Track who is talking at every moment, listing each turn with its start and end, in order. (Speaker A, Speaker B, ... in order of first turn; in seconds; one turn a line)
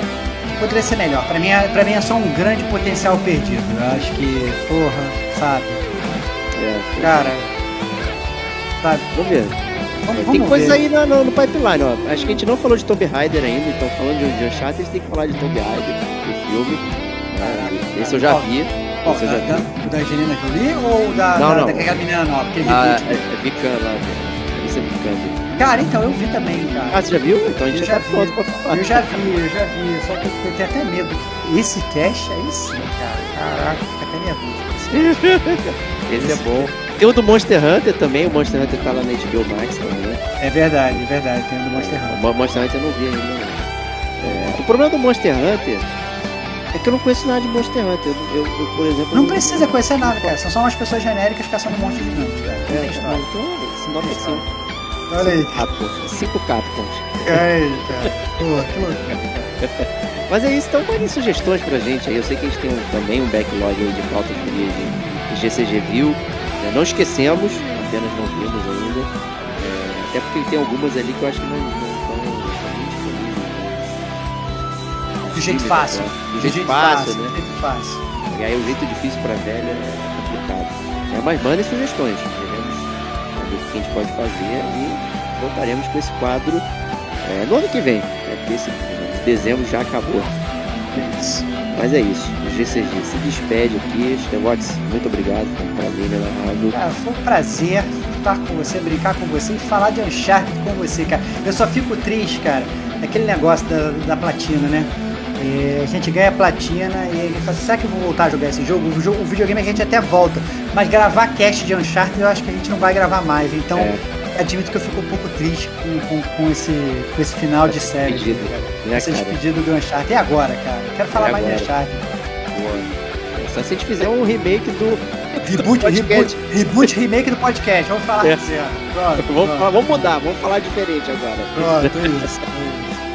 Speaker A: 0.5-5.9
Speaker B: 6.5-7.4
Speaker A: 7.0-7.5
Speaker A: 8.8-9.1
Speaker B: 9.1-9.6
Speaker A: 10.0-10.8
Speaker B: 10.1-19.7
Speaker A: 17.4-18.5
Speaker A: 19.0-23.2
Speaker B: 21.3-21.9
Speaker B: 22.6-25.4
Speaker A: 25.6-27.1
Speaker B: 26.9-29.0
Speaker A: 27.7-35.4
Speaker B: 34.9-40.2
Speaker A: 36.1-36.8
Speaker A: 40.4-42.7
Speaker B: 41.7-45.9
Speaker B: 46.7-50.3
Speaker A: 49.1-54.5
Speaker B: 52.7-54.5
Speaker A: 55.1-55.6
Speaker B: 55.2-57.5
Speaker A: 57.2-59.1
Speaker B: 58.7-77.3
Speaker A: 75.3-78.0
Speaker B: 78.2-86.7
Speaker B: 87.2-90.3
Speaker A: 90.8-91.5
Speaker B: 91.7-96.8
Speaker A: 96.7-122.1
Speaker B: 113.8-114.0
Speaker B: 117.7-119.4
Speaker B: 121.1-121.7
Speaker B: 122.5-126.9
Speaker A: 125.4-130.1
Speaker B: 129.2-132.3
Speaker A: 131.5-133.0